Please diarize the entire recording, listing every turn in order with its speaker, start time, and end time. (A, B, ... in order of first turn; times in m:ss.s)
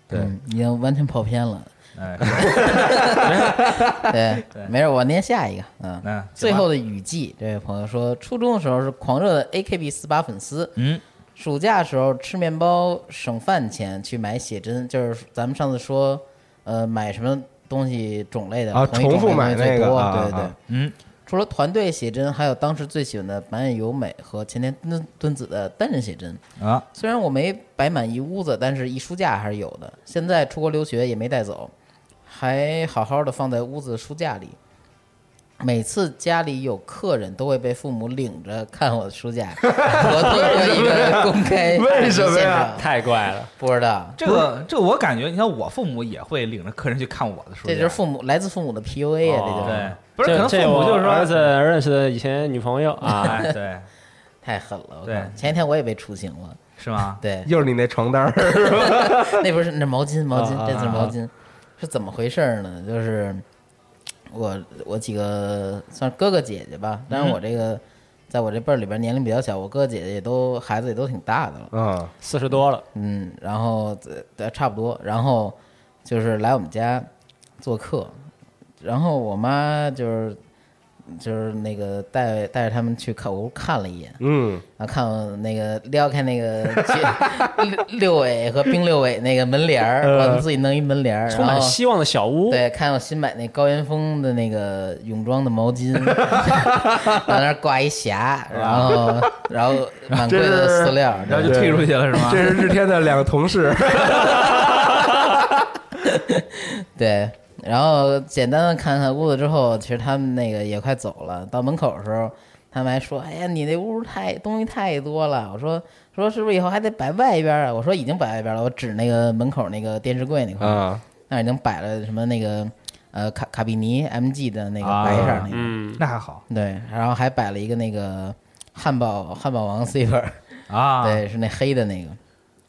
0:00.1-0:01.7 A
0:02.0-0:02.8 B
0:02.2-0:03.3 A
0:02.3-0:04.1 C
0:03.2-0:03.5 D
0:04.0-0:10.8 A
0:06.0-0:06.7 B
0:10.8-0:11.0 B
0:11.4-0:20.6 A
0:18.7-0:20.5 C
0:20.7-0:21.0 B
0:21.3-0:26.4 A
0:26.6-0:26.9 B
0:26.9-0:31.7 A
0:32.3-0:34.6 A
0:35.6-0:42.9 A
0:39.6-0:42.8 C
0:42.8-0:43.5 D
0:43.6-0:44.2 A
0:44.2-0:48.0 B
0:47.6-0:50.0 A
0:49.2-0:51.4 B
0:50.2-0:53.4 D
0:53.2-0:53.9 B
0:54.4-0:56.6 A
0:55.1-0:55.5 B
0:56.8-0:57.2 B
0:57.2-0:57.5 A
0:57.4-0:59.4 C
0:58.5-1:03.4 A
1:00.3-1:01.1 C
1:00.7-1:01.2 B
1:04.3-1:11.7 A
1:07.1-1:07.4 B
1:11.7-1:12.1 C
1:12.2-1:12.8 D
1:12.9-1:17.1 A
1:17.6-1:18.2 A
1:18.8-1:20.4 A
1:21.1-1:24.2 A
1:24.2-1:24.6 C
1:24.8-1:31.8 A
1:26.9-1:27.5 C
1:30.0-1:30.4 C
1:31.3-1:32.6 D
1:32.5-1:41.7 A
1:36.1-1:37.2 C
1:38.5-1:39.3 C
1:40.1-1:45.3 C
1:41.2-1:42.6 B
1:46.0-2:05.8 A
2:00.6-2:01.0 C
2:04.8-2:06.4 B
2:05.0-2:05.4 C
2:05.5-2:06.0 D
2:06.5-2:10.4 A
2:10.7-2:11.2 B
2:11.0-2:12.2 A